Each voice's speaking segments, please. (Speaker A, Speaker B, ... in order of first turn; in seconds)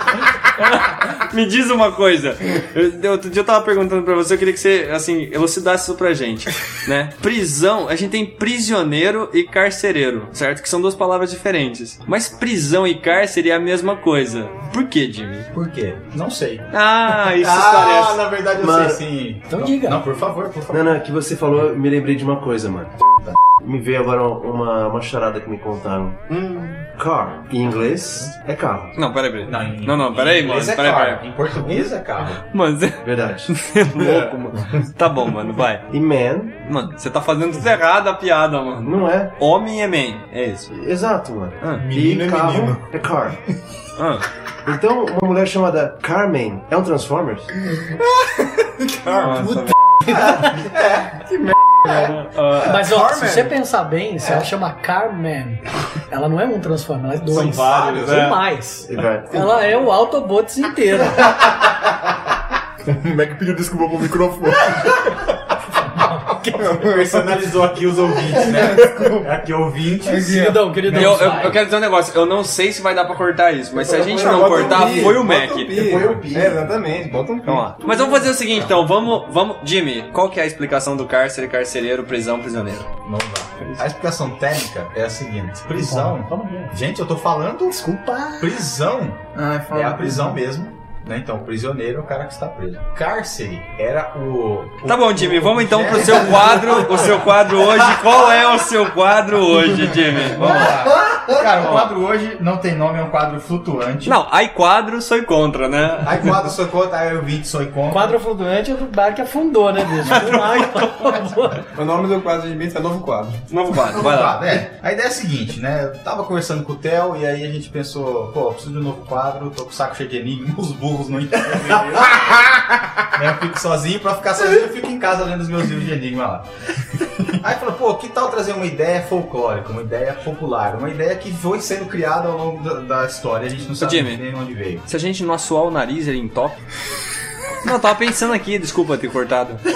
Speaker A: 0.5-15.5, 16.7-18.2, 26.3-26.8, 28.9-31.2, 32.4-35.9, 36.6-40.7, 44.0-44.2, 49.1-49.7, 52.3-52.6, 57.3-58.4, 70.9-76.0, 77.4-82.9, 94.8-100.9, 104.0-106.3, 110.1-110.9, 113.5-114.4, 133.8-134.2, 134.8-136.6, 137.6-139.6
Speaker B: 15.5-20.9, 29.4-32.4, 50.2-51.0, 66.9-71.4, 73.9-76.7, 83.0-98.2, 100.2-104.2, 106.0-108.2, 110.0-110.5, 113.7-126.5, 127.3-134.8
Speaker C: 18.5-19.0, 20.7-23.0, 23.6-26.2, 27.0-29.0, 33.0-33.7, 35.9-36.6, 38.8-39.3, 40.7-43.4, 44.6-47.5, 58.9-59.5
Speaker D: 19.5-20.0, 50.1-50.5, 52.6-61.5, 66.0-66.2, 70.1-71.6, 86.0-86.7, 107.9-111.7
Speaker E: 33.9-34.8, 41.8-42.9, 62.8-65.2
Speaker F: 48.6-49.6, 51.3-53.5, 66.4-67.5, 68.2-69.2, 70.1-71.1, 73.8-78.2, 89.4-90.4, 111.7-113.4